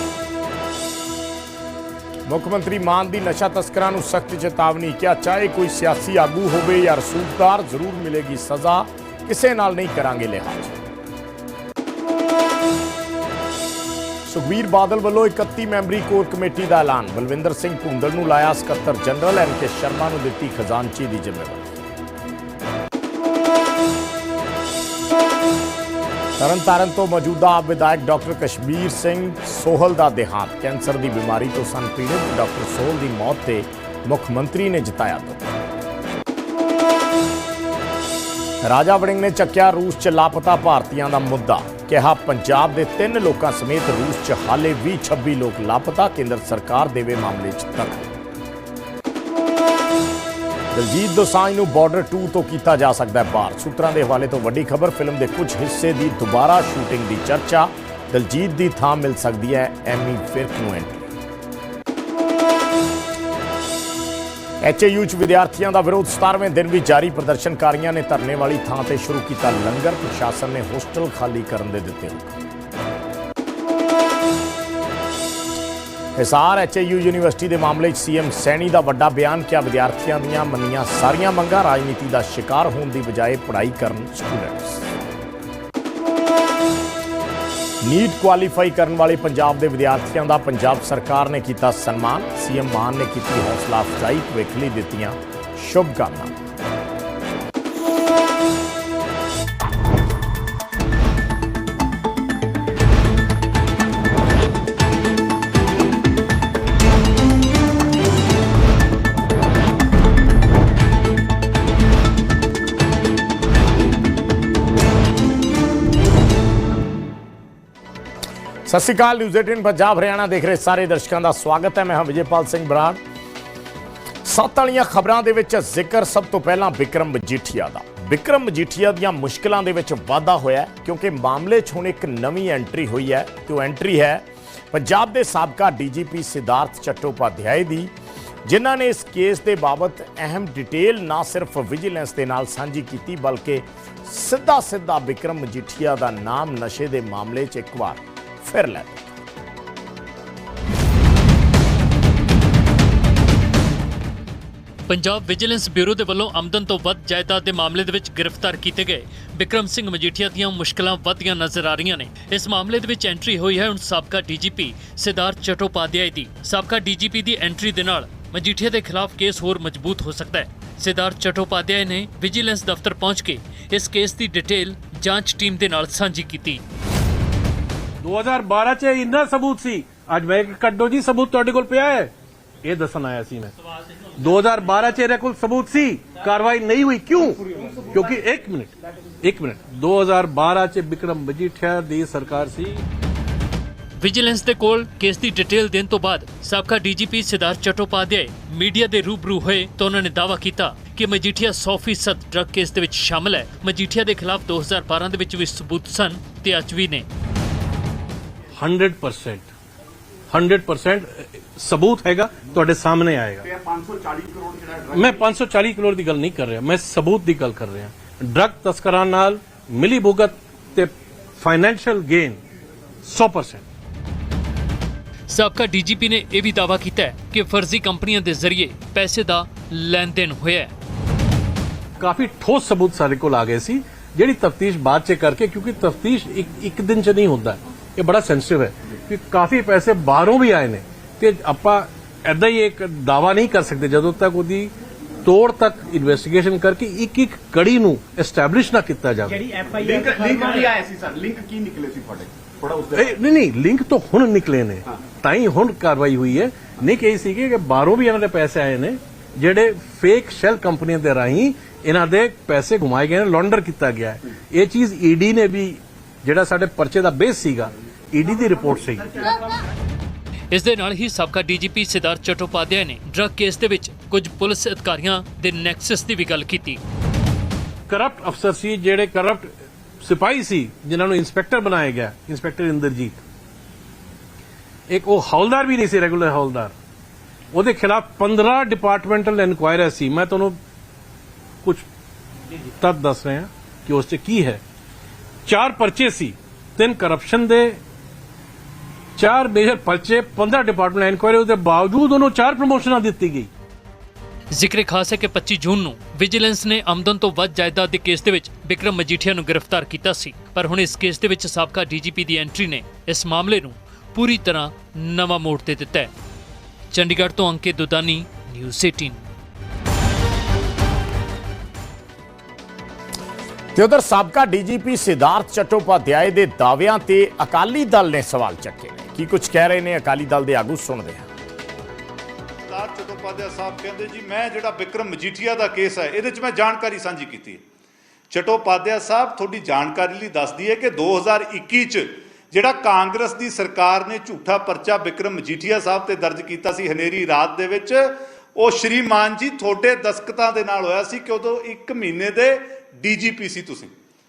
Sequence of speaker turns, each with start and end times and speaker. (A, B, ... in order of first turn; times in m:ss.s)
0:02.3-0:10.8 A
0:14.3-0:21.9 A
0:26.4-0:35.5 A
0:38.6-0:48.1 A
0:50.7-1:01.1 A
1:04.6-1:12.3 A
1:16.2-1:24.9 A
1:27.8-1:36.4 A
1:58.7-2:03.0 A
2:04.2-2:17.9 A
2:18.4-2:29.2 A
2:34.9-2:56.6 B
2:58.0-3:03.5 C
3:04.2-3:12.8 C
3:14.0-3:27.0 B
3:28.6-3:29.5 C
3:30.3-3:33.4 C
3:33.4-3:35.2 D
3:34.9-3:42.4 C
3:43.0-3:43.6 C
3:45.3-3:50.7 B
3:52.0-4:04.7 C
4:05.2-4:09.4 C
4:09.3-4:13.2 D
4:12.9-4:29.2 C
4:30.5-4:36.8 B
4:37.9-4:39.5 C
4:40.0-4:43.2 C
4:44.9-4:46.7 C
4:47.5-4:50.6 C
4:52.8-4:54.6 C
4:55.4-4:57.8 C
4:59.2-5:03.5 C
5:04.5-5:16.1 B
5:16.9-5:19.2 B
5:23.8-5:31.3 A
5:32.6-5:37.6 E
5:38.3-5:53.9 E